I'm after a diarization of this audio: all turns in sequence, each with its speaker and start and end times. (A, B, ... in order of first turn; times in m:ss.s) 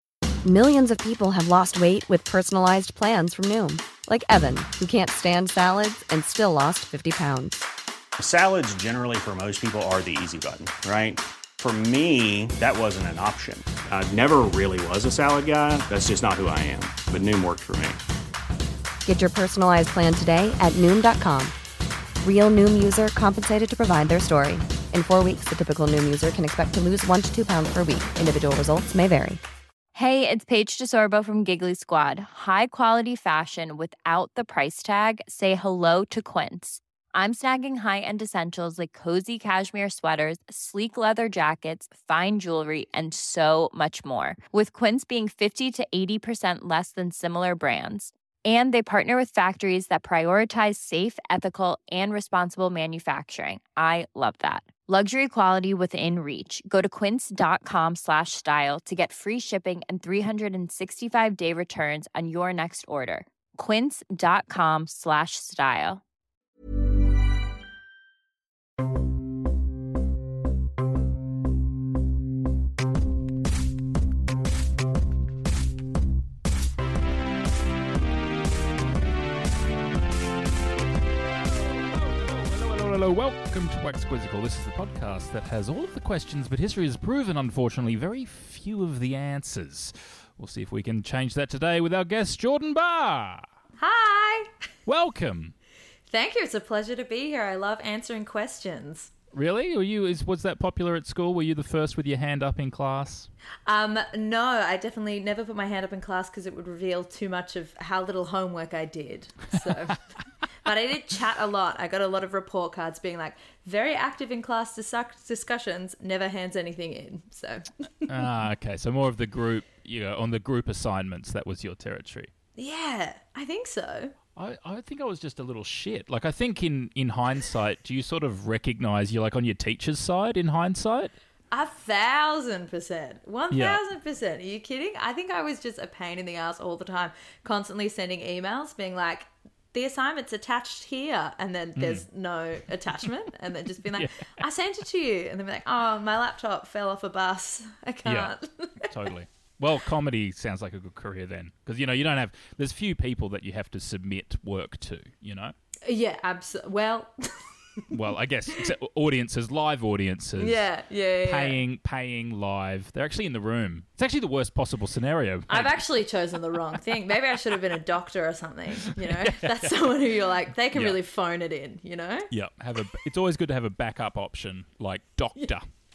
0:00.4-0:07.6 A
0:08.2-0:18.0 B
0:19.0-0:21.5 A
0:22.2-0:29.4 A
0:29.9-1:06.0 C
1:21.9-1:33.5 D
1:33.8-1:34.5 E
1:34.8-1:35.5 D
1:36.1-1:39.1 E
1:39.3-1:43.3 D
1:43.6-1:50.0 E
1:50.6-1:58.1 E
1:58.1-2:02.3 D
2:02.6-2:04.1 E
2:04.4-2:11.1 D
2:11.5-2:28.9 E
2:13.5-2:13.8 D
2:21.8-2:22.0 D
2:28.0-2:35.5 D
2:35.8-2:37.8 E
2:37.9-2:40.6 D
2:40.4-2:41.6 E
2:41.2-2:45.9 D
2:45.5-2:52.3 E
2:48.8-2:49.7 D
2:50.7-2:51.0 D
2:52.3-2:55.6 D